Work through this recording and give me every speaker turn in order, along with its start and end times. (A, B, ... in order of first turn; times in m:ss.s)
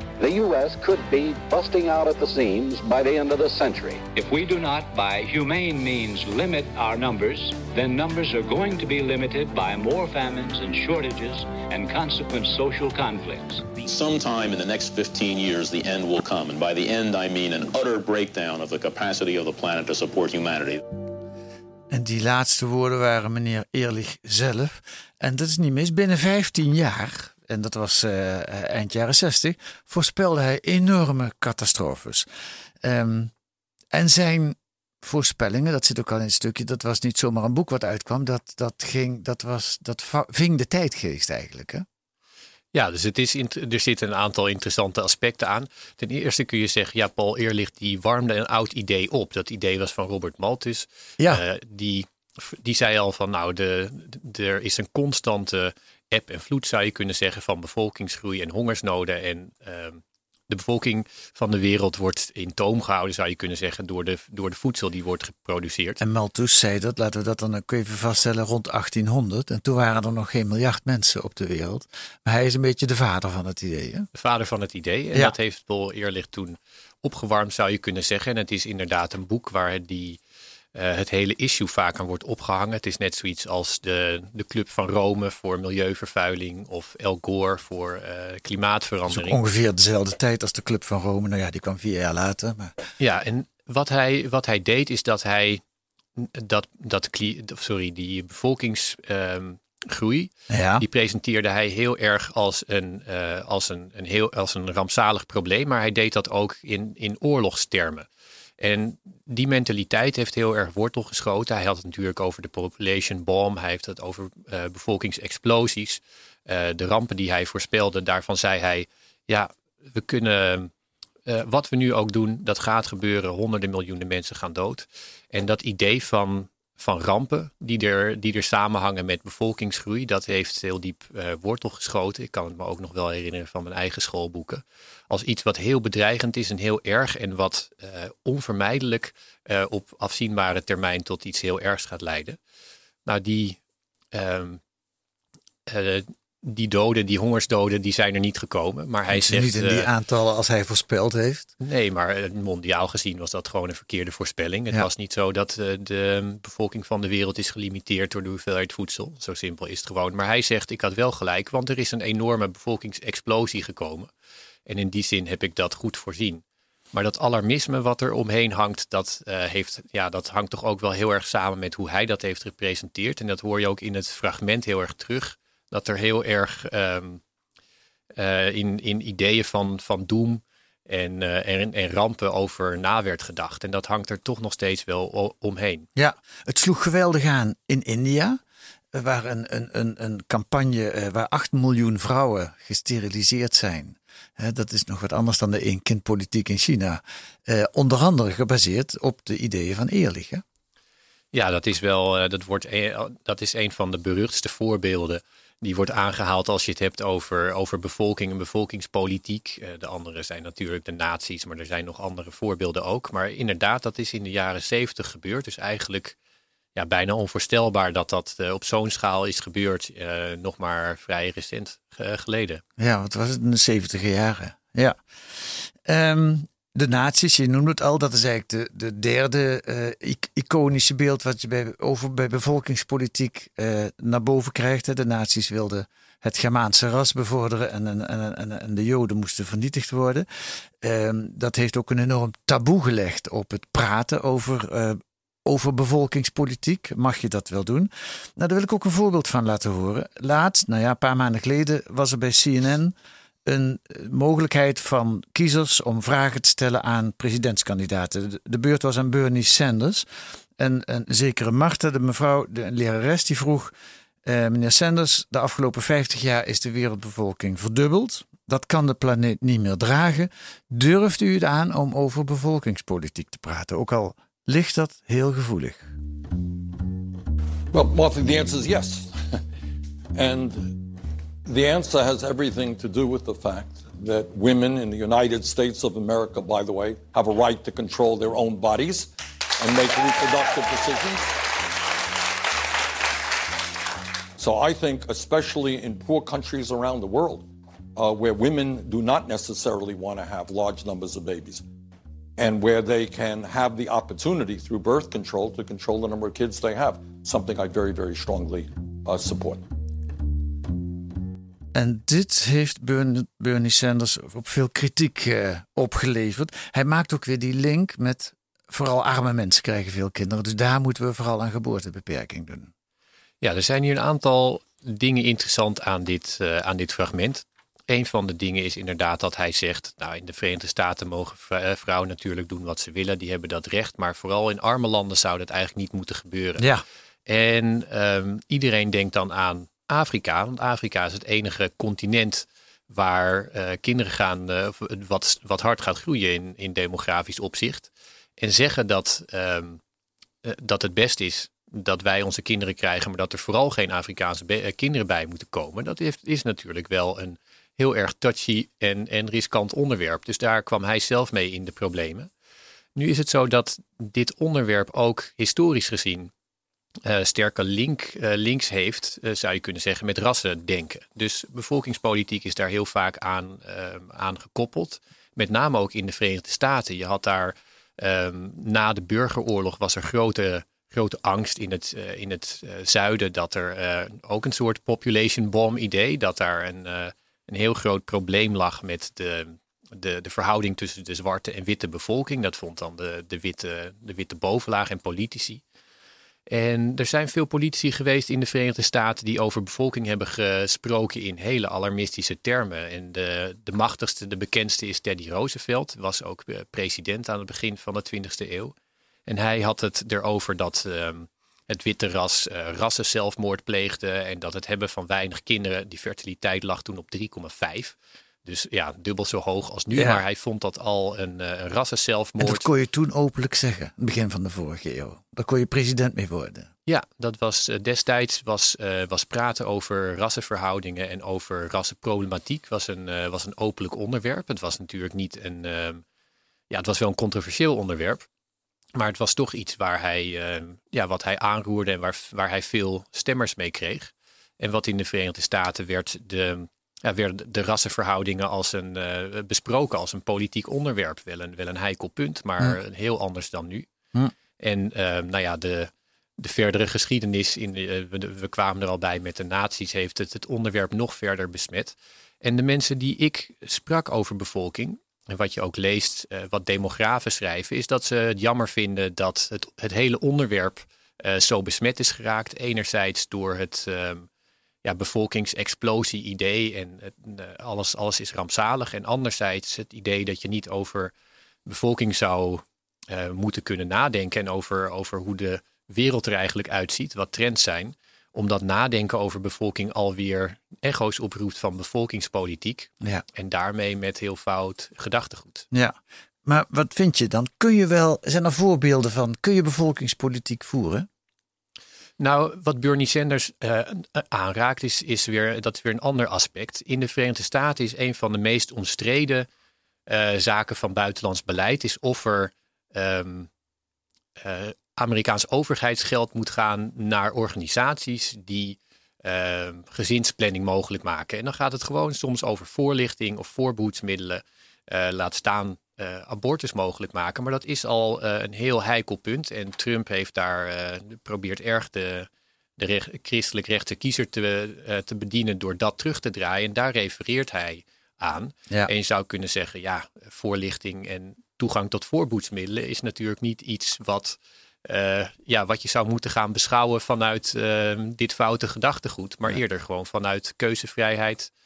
0:00.2-0:04.1 A
0:04.1-0:13.7 B
0:13.8-0:20.8 C
0:21.9-0:32.3 D
0:32.8-0:33.3 D
0:33.9-0:41.8 D
0:42.7-1:06.0 E
1:06.0-1:14.1 D
1:14.1-1:20.2 E
1:20.7-1:29.4 E
1:29.1-1:32.8 D
1:33.0-1:35.6 E
1:36.2-1:48.1 E
1:40.5-1:40.8 D
1:48.6-2:00.7 E
2:01.2-2:22.4 E
2:23.0-2:23.6 E
2:24.1-2:24.6 E
2:25.7-2:29.9 E
2:29.1-2:31.5 D
2:31.6-2:44.1 E
2:44.7-2:57.2 E
2:58.2-3:05.9 E
3:05.9-3:08.4 D
3:08.9-3:20.4 D
3:21.3-3:36.2 E
3:36.8-3:42.6 E
3:42.8-4:12.9 D
4:13.4-4:20.0 D
4:20.6-4:23.7 D
4:24.2-4:35.9 D
4:37.7-4:39.1 F
4:40.1-4:40.8 F
4:41.4-4:51.4 F
4:54.4-5:01.6 F
5:02.4-5:09.6 F
5:11.7-5:22.7 D
5:23.4-5:36.6 E
5:36.6-5:36.8 D
5:37.2-5:49.8 E
5:50.4-6:02.3 E
6:03.0-6:06.3 E
6:07.0-6:35.6 E
6:36.5-6:48.7 E
6:49.3-7:02.7 E
6:59.9-7:00.2 D
7:02.4-7:06.7 D
7:06.8-7:16.0 E
7:16.7-7:18.2 E
7:18.9-7:33.8 E
7:34.6-7:54.3 E
7:54.8-8:01.1 E
8:01.6-8:15.7 E
8:15.7-8:21.1 D
8:22.2-8:29.4 E
8:30.1-8:33.5 E
8:34.4-9:11.5 E